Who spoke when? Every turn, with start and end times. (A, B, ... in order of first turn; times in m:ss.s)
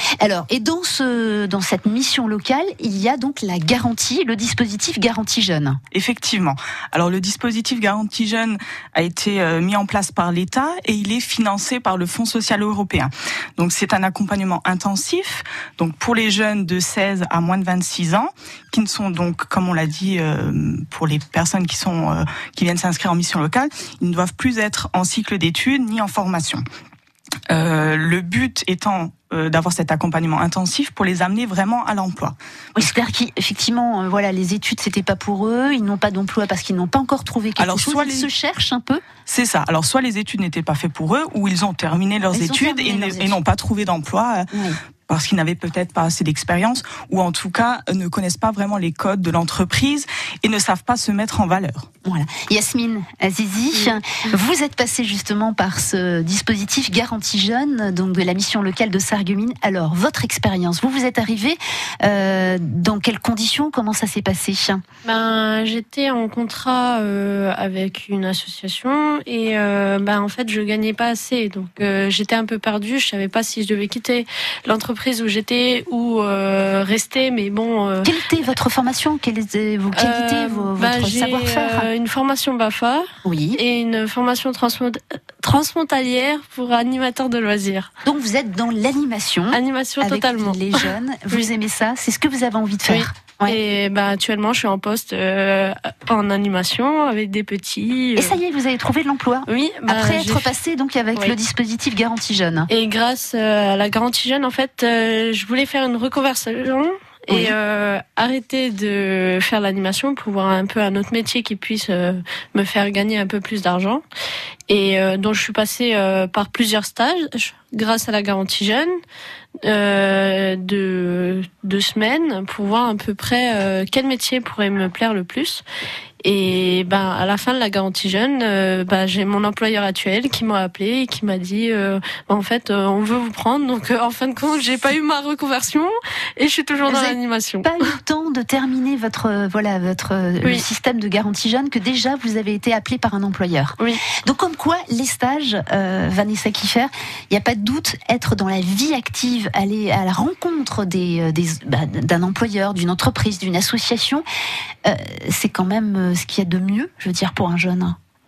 0:00.2-0:05.8 A
0:05.9-0:26.6 B
0:27.5-0:32.9 B
0:32.8-0:39.0 A
0:37.6-0:38.3 B
0:39.2-0:44.5 B
0:42.3-0:43.4 A
0:44.5-0:44.8 A
0:45.1-0:51.8 B
0:52.0-1:04.8 A
1:05.0-1:18.1 C
1:18.0-1:21.9 A
1:19.9-1:27.9 C
1:23.2-1:23.6 A
1:28.0-1:33.6 A
1:29.5-1:31.5 C
1:32.9-1:38.4 C
1:38.2-1:42.7 A
1:39.5-1:40.5 C
1:42.7-1:54.0 C
1:47.3-1:47.6 A
1:54.7-1:58.9 C
1:59.6-2:05.6 C
2:06.2-2:17.9 C
2:16.8-2:34.2 A
2:34.8-2:38.0 A